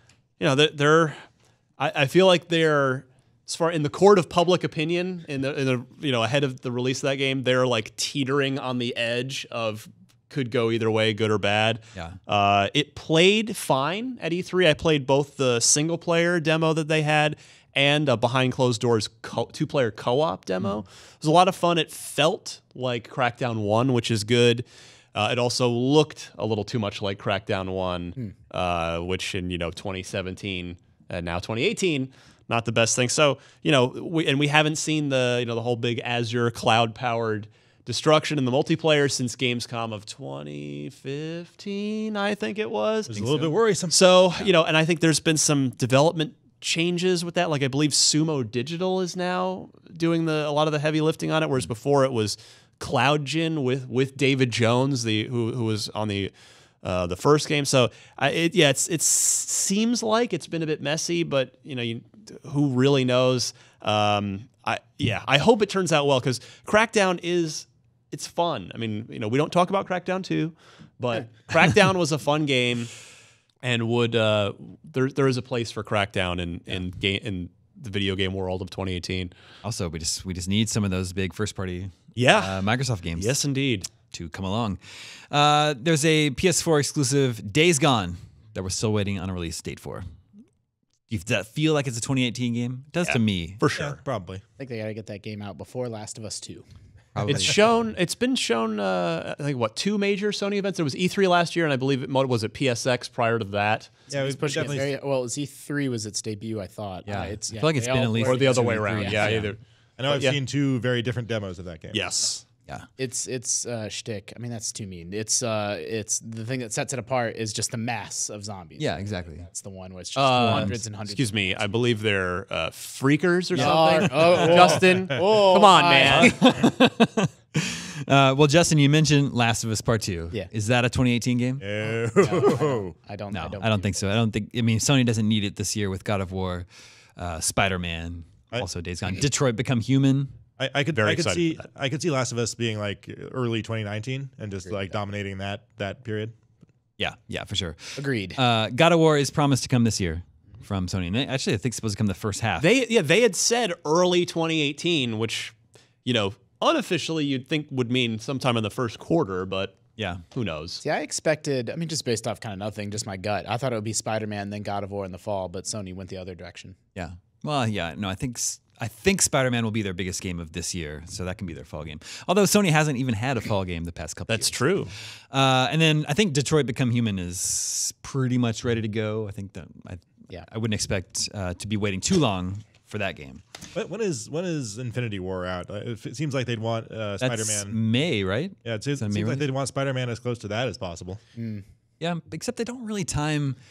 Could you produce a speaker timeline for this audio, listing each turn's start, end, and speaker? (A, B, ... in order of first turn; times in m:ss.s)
0:00.4-0:01.2 A
0:01.8-0:24.6 A
0:25.2-0:56.3 A
0:43.1-0:44.0 B
0:56.8-1:12.9 A
1:13.6-1:19.3 A
1:19.6-1:23.3 C
1:22.2-1:22.6 A
1:23.2-1:23.9 A
1:24.1-1:30.1 C
1:31.1-1:33.6 C
1:33.0-1:34.0 A
1:33.7-1:34.4 B
1:34.6-1:36.6 D
1:37.2-1:37.6 C
1:37.3-1:44.0 A
1:44.1-1:49.5 D
1:44.1-1:44.9 B
1:47.1-1:49.5 C
1:48.2-1:50.4 A
1:50.0-1:52.3 B
1:51.9-1:52.4 A
1:53.0-2:01.7 D
1:58.8-1:59.5 C
2:00.2-2:06.6 A
2:00.3-2:00.8 C
2:03.5-2:06.7 D
2:03.6-2:04.7 C
2:06.0-2:11.6 C
2:11.6-2:12.9 B
2:12.2-2:14.1 D
2:13.3-2:20.3 C
2:20.6-2:26.4 B
2:21.0-2:21.6 A
2:27.0-2:32.7 C
2:28.0-2:28.4 D
2:32.6-2:39.8 A
2:40.0-2:40.2 C
2:40.3-2:40.8 A
2:40.8-2:46.8 D
2:47.0-3:03.4 C
2:54.3-2:54.9 A
3:03.7-3:07.8 B
3:07.2-3:09.4 C
3:08.6-3:11.2 B
3:11.4-3:11.6 D
3:12.0-3:13.6 C